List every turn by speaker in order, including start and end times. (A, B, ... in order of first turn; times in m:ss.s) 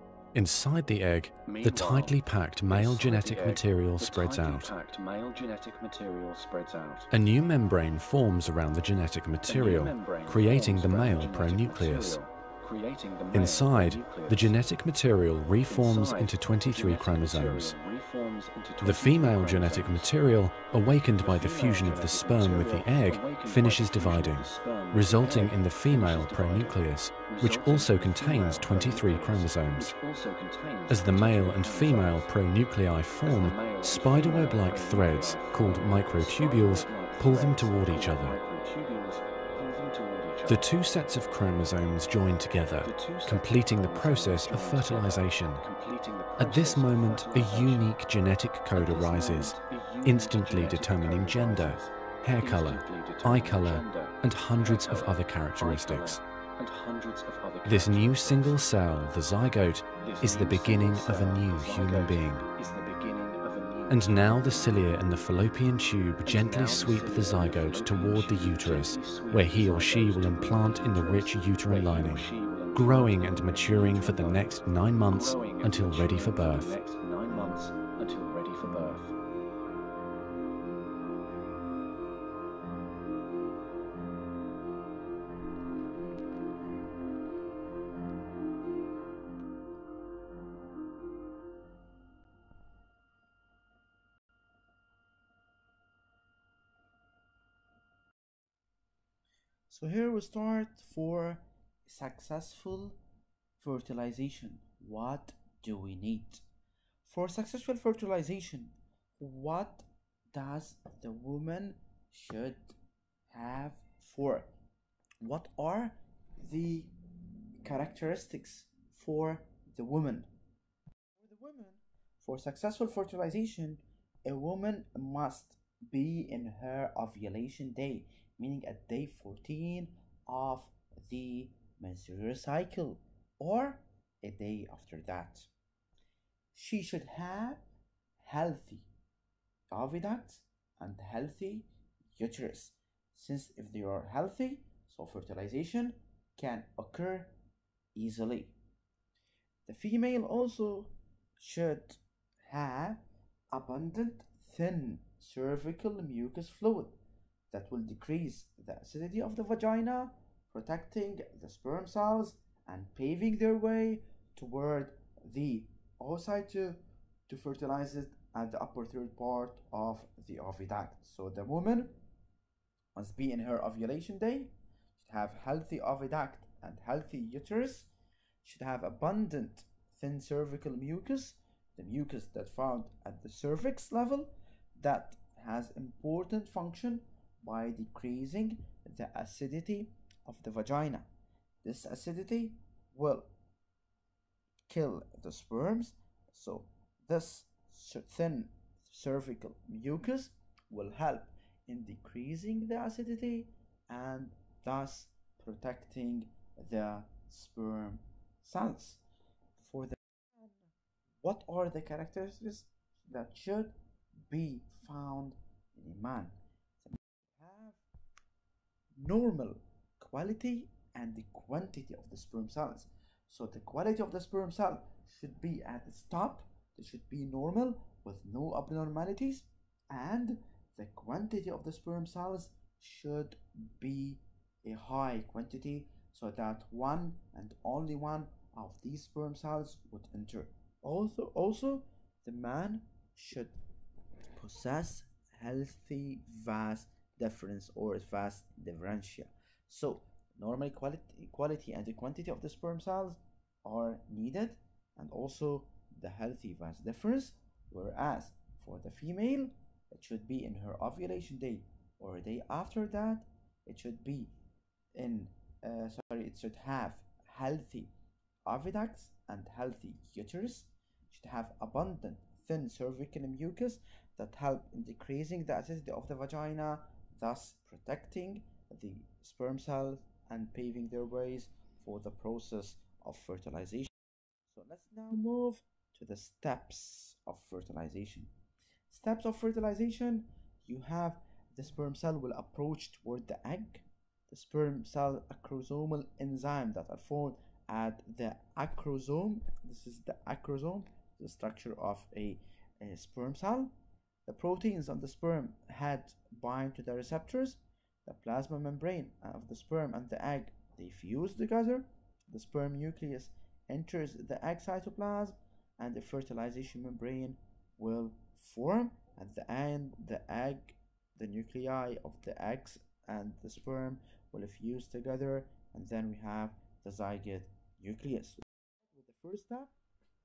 0:00.3-0:04.7 A
0:01.4-0:07.1 B
0:07.1-0:12.2 A
0:09.4-0:14.6 B
0:13.3-0:17.7 A
0:15.7-0:20.1 B
0:18.8-0:30.0 A
0:21.2-0:32.3 B
0:30.9-0:38.4 A
0:33.2-0:40.7 B
0:40.4-0:45.6 A
0:42.8-0:47.9 B
0:46.4-0:56.2 A
0:48.7-0:58.7 B
0:57.6-1:02.5 A
1:00.0-1:05.0 B
1:03.9-1:16.7 A
1:06.2-1:19.1 B
1:39.7-1:43.0 C
1:43.6-1:46.4 C
1:47.0-1:52.7 C
1:53.3-1:54.5 C
1:55.2-1:56.9 C
1:57.6-2:00.3 C
2:01.2-2:15.5 C
2:16.5-2:17.6 C
2:18.2-2:18.9 C
2:19.7-2:27.3 C
2:27.9-2:28.5 C
2:29.7-2:33.0 C
2:33.5-2:37.0 C
2:37.5-2:51.9 C
2:53.0-2:57.9 C
2:58.4-3:11.1 C
3:11.6-3:13.3 C
3:14.7-3:29.0 C
3:29.6-3:30.6 C
3:31.2-3:33.7 C
3:34.3-3:37.8 C
3:39.0-4:03.5 C
4:04.4-4:24.3 C
4:24.9-4:27.9 C
4:28.4-4:43.9 C
4:44.5-4:48.3 C
4:48.9-5:03.7 C
5:04.2-5:28.4 C
5:28.9-5:29.7 C